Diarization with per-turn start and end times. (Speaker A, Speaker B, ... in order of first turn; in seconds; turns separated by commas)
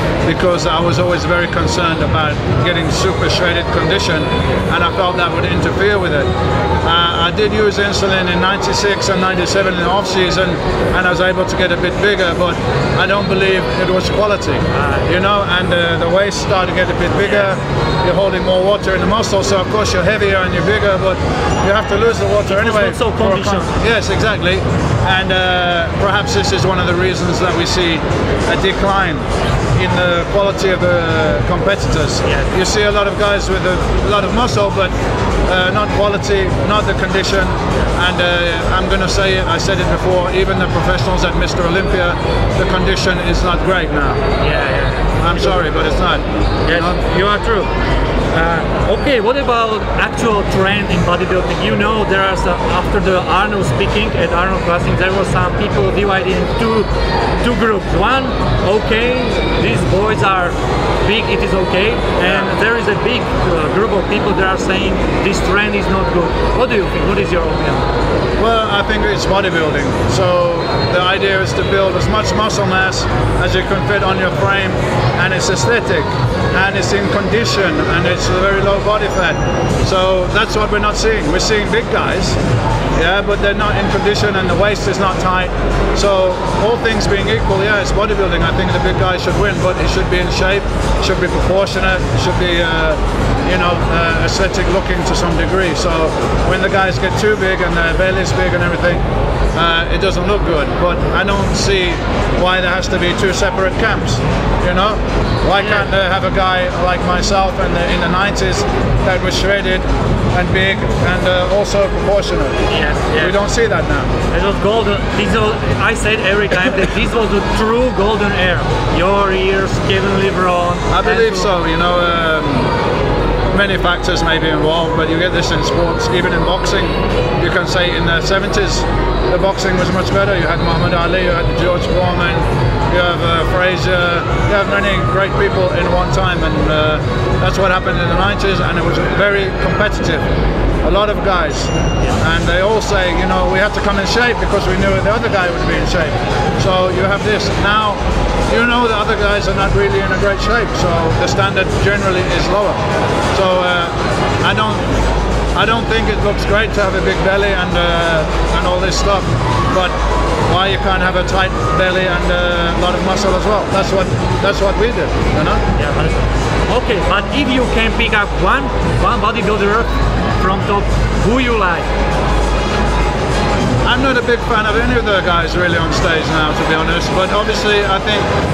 Speaker A: 0.2-6.3, Speaker A: 6.8-34.9, Speaker B: 14.7-15.1, Speaker B: 17.1-17.6, Speaker B: 22.5-23.7, Speaker B: 32.2-32.5, Speaker A: 35.5-44.2, Speaker B: 44.4-45.2, Speaker A: 45.2-47.0, Speaker B: 46.6-47.7, Speaker B: 48.3-56.9, Speaker B: 57.4-67.9, Speaker A: 62.2-62.5, Speaker A: 68.4-82.4, Speaker A: 83.0-99.0, Speaker A: 99.5-112.6, Speaker B: 105.6-105.9, Speaker B: 112.7-113.4, Speaker A: 113.2-114.1, Speaker B: 114.3-121.5, Speaker A: 120.9-122.7, Speaker A: 123.5-140.2, Speaker A: 140.8-152.8, Speaker A: 153.3-154.8, Speaker A: 155.5-159.9, Speaker A: 160.5-165.6, Speaker B: 165.8-169.9, Speaker B: 170.4-171.9, Speaker A: 173.8-178.3